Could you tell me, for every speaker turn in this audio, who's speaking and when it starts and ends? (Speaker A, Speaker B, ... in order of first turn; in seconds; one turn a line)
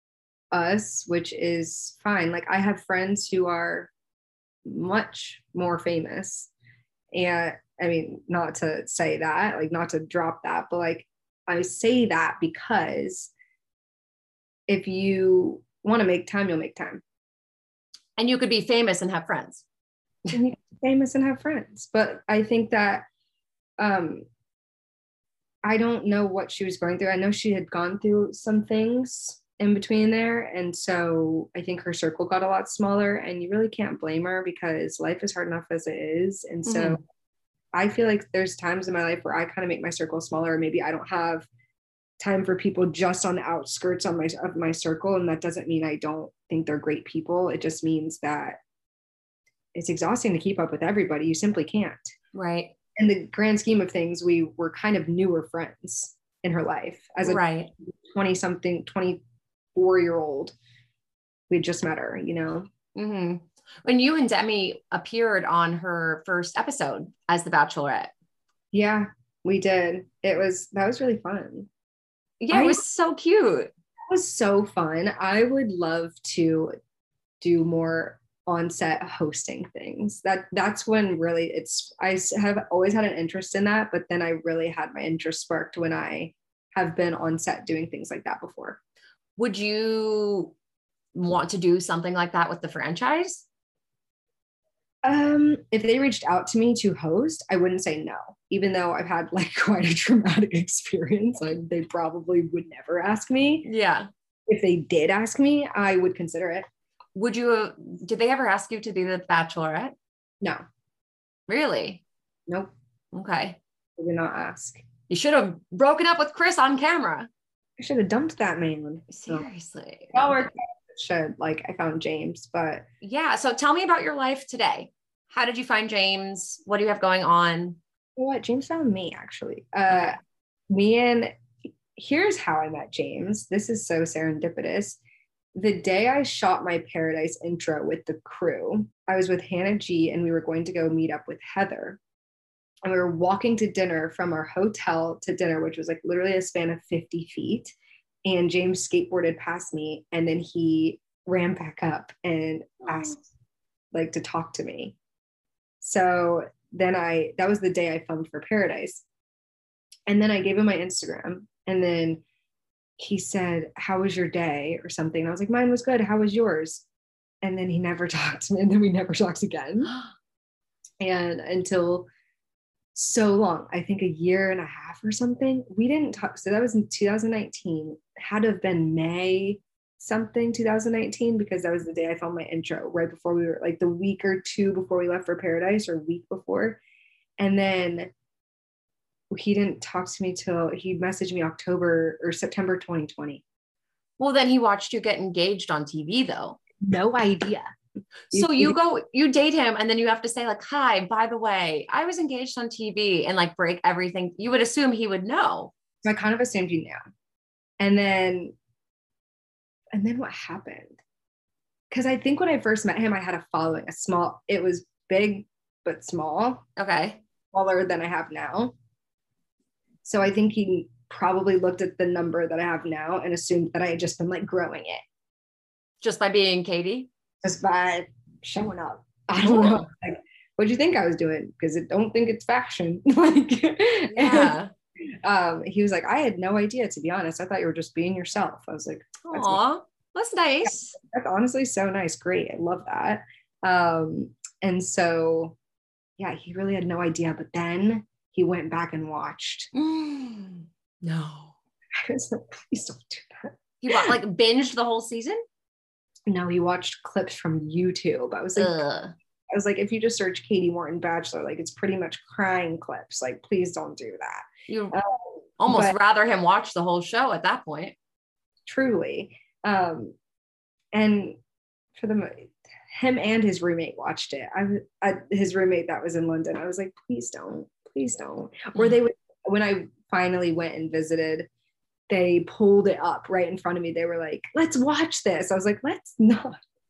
Speaker A: 0.5-3.9
Speaker A: 4.6-6.5
Speaker A: 7.1-13.3
Speaker A: 14.7-17.0
Speaker B: 18.2-19.6
Speaker A: 20.3-23.0
Speaker A: 23.8-24.2
Speaker A: 25.6-37.0
Speaker B: 36.7-37.0
Speaker A: 37.7-41.5
Speaker A: 42.2-48.6
Speaker A: 49.7-52.1
Speaker B: 52.3-52.7
Speaker A: 53.0-57.4
Speaker B: 57.2-57.7
Speaker A: 58.0-59.2
Speaker A: 59.7-60.5
Speaker A: 61.5-62.6
Speaker B: 62.9-68.1
Speaker A: 68.7-71.7
Speaker B: 72.4-73.7
Speaker A: 72.5-72.8
Speaker A: 74.1-76.7
Speaker A: 77.4-88.8
Speaker B: 89.4-90.5
Speaker B: 91.1-93.4
Speaker A: 95.0-103.7
Speaker B: 103.6-104.1
Speaker A: 104.5-106.7
Speaker B: 107.1-109.9
Speaker B: 111.5-112.0
Speaker B: 113.1-113.6
Speaker A: 114.0-114.8
Speaker B: 115.1-117.3
Speaker A: 117.8-119.4
Speaker B: 119.1-120.4
Speaker A: 120.1-122.8
Speaker B: 123.0-127.8
Speaker A: 128.2-130.2
Speaker A: 130.7-131.3
Speaker A: 131.9-135.0
Speaker A: 135.5-142.0
Speaker A: 142.8-147.7
Speaker A: 148.2-153.2
Speaker A: 153.9-154.9
Speaker A: 155.8-159.0
Speaker A: 160.1-162.2
Speaker A: 163.0-166.8
Speaker A: 167.4-169.9
Speaker A: 171.0-172.1
Speaker A: 172.9-186.8
Speaker A: 187.4-188.1
Speaker A: 189.3-193.4
Speaker B: 194.2-196.6
Speaker A: 196.8-197.7
Speaker A: 198.3-198.8
Speaker B: 198.3-205.7
Speaker A: 206.0-207.0
Speaker A: 207.8-208.5
Speaker A: 209.9-211.0
Speaker A: 211.9-216.6
Speaker B: 216.8-217.2
Speaker A: 217.5-218.7
Speaker A: 220.0-225.0
Speaker B: 226.0-227.1
Speaker A: 227.4-234.6
Speaker B: 229.5-229.8
Speaker B: 234.2-234.7
Speaker A: 235.2-239.6
Speaker B: 239.2-240.9
Speaker A: 240.7-245.6
Speaker A: 246.2-249.7
Speaker B: 249.7-251.5
Speaker A: 252.0-254.1
Speaker B: 253.8-255.4
Speaker A: 256.3-258.8
Speaker B: 258.6-259.1
Speaker A: 259.5-265.9
Speaker B: 264.7-264.9
Speaker B: 265.6-267.9
Speaker A: 268.6-270.1
Speaker A: 270.9-271.4
Speaker A: 271.9-281.5
Speaker A: 282.1-286.6